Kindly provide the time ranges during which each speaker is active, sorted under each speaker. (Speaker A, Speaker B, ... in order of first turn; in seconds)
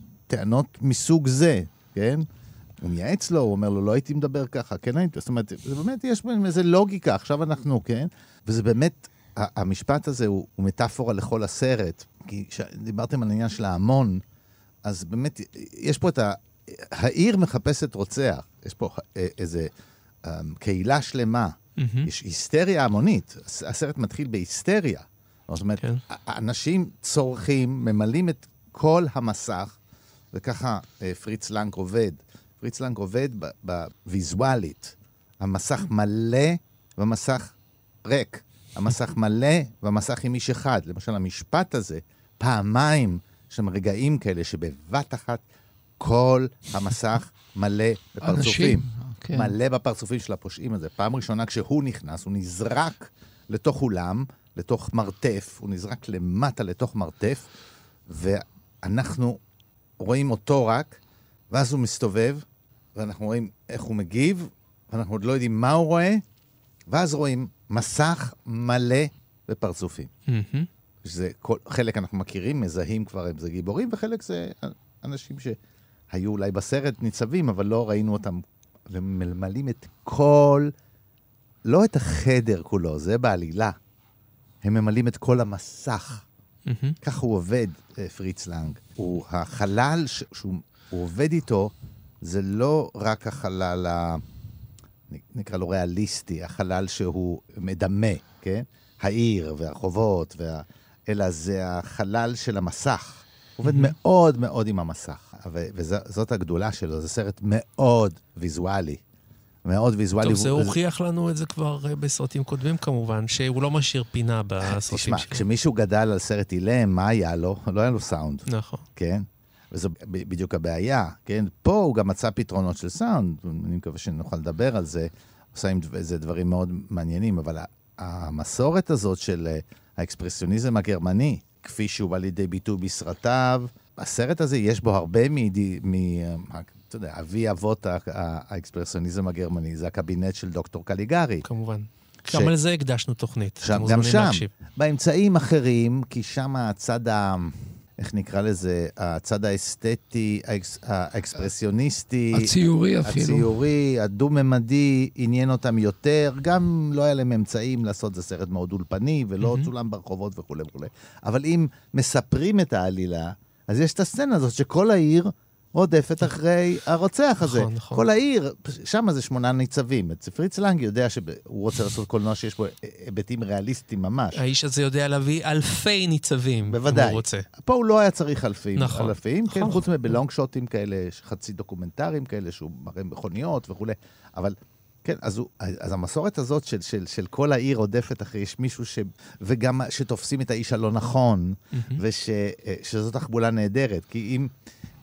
Speaker A: 0.3-2.2, 2.8-14.2, 14.8-19.7, 20.2-29.8, 30.3-37.5, 38.0-45.4, 46.0-57.5, 58.1-59.4, 60.0-61.0, 61.5-62.5, 63.0-66.2, 66.9-70.1, 71.0-75.6, 76.1-80.7, 81.7-83.8, 84.6-86.2, 87.0-94.2, 95.1-109.0, 109.7-110.8, 114.7-141.4, 142.3-142.5, 143.6-152.5, 153.0-174.4, 176.7-194.5
Speaker B: 21.8-22.1, 70.3-70.7, 86.7-87.0, 103.6-103.9, 110.2-115.4, 118.5-118.8, 141.4-144.5, 159.4-159.7, 167.4-168.1, 174.4-177.5, 178.8-180.1, 191.7-192.0
Speaker C: 48.2-49.5, 152.3-153.5